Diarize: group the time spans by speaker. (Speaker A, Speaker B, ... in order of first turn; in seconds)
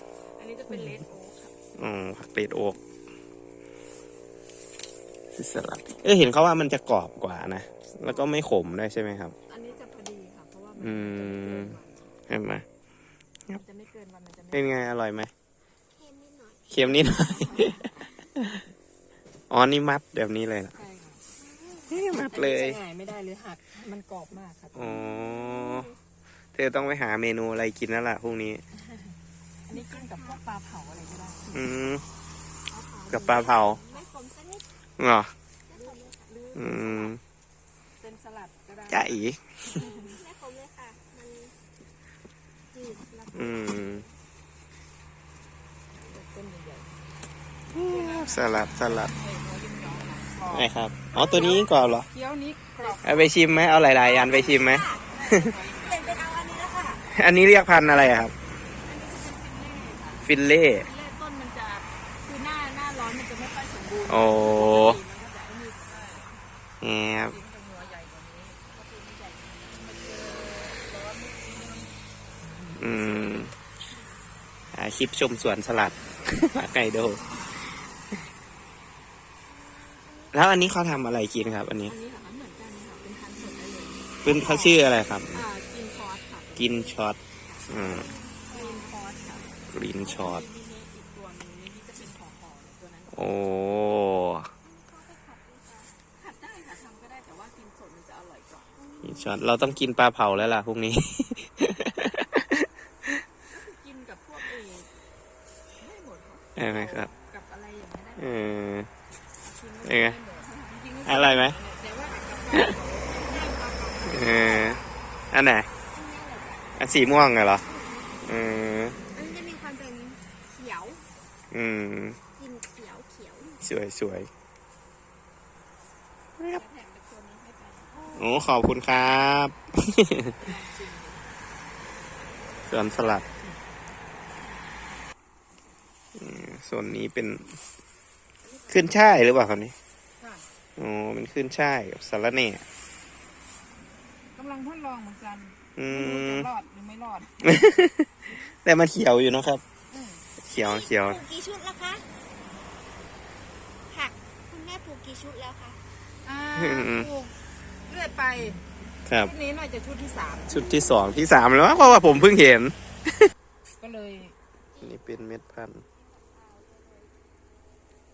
Speaker A: 0.3-1.6, 8.1-8.3, 9.5-12.2, 13.5-14.8, 17.3-17.9, 20.8-21.3, 22.0-25.0, 29.7-31.6, 32.7-34.1, 35.7-37.1, 38.0-40.2, 46.0-46.9, 47.8-50.7, 52.1-53.3, 55.1-56.4, 58.8-60.3, 60.8-66.4, 67.3-72.0, 81.8-87.7, 88.5-93.9, 96.1-98.8, 103.5-104.9, 105.8-108.5, 109.4-114.5, 126.4-128.3, 130.4-131.4, 138.4-139.1, 140.2-140.5, 144.3-147.4, 149.9-150.3, 156.2-157.3, 157.9-158.6, 159.2-160.7, 163.8-164.3
Speaker B: 1.8-2.8, 5.3-9.3, 10.8-12.6, 14.5-15.3, 16.7-18.6, 19.5-20.8, 21.9-22.8, 24.7-25.9, 26.5-28.6, 31.5-32.0, 33.1-33.8, 35.0-35.3, 36.5-37.2, 38.9-39.8, 43.3-44.0, 47.7-49.1, 50.5-52.1, 53.0-55.5, 57.1-58.3, 60.2-60.9, 64.1-65.0, 66.8-67.4, 72.8-73.5, 74.7-77.2, 80.3-82.0, 84.2-85.4, 86.6-88.1, 89.7-90.4, 93.1-94.5, 99.0-102.7, 106.6-107.1, 108.2-108.9, 109.8-110.2, 111.1-111.6, 114.0-114.8, 115.3-115.7, 116.8-117.6, 118.2-119.0, 121.5-122.2, 123.6-124.3, 128.1-130.3, 132.7-133.2, 136.2-137.6, 138.7-139.8, 140.8-142.6, 145.8-146.5, 147.4-149.6, 150.4-151.2, 156.6-157.1, 159.1-159.3, 160.5-163.3, 164.8-165.8
Speaker C: 15.9-16.7, 21.4-21.9, 25.3-25.9, 29.7-30.4, 32.8-34.7, 35.7-36.3, 39.8-41.6, 42.7-44.1, 51.1-51.7, 53.9-55.1, 55.8-57.0, 79.5-81.7, 87.7-89.0, 94.6-96.0, 98.8-99.4, 113.2-114.8, 115.9-116.7, 117.6-118.2, 119.1-121.0, 122.4-123.6, 150.6-152.1, 153.9-155.8, 164.7-165.2, 166.1-167.0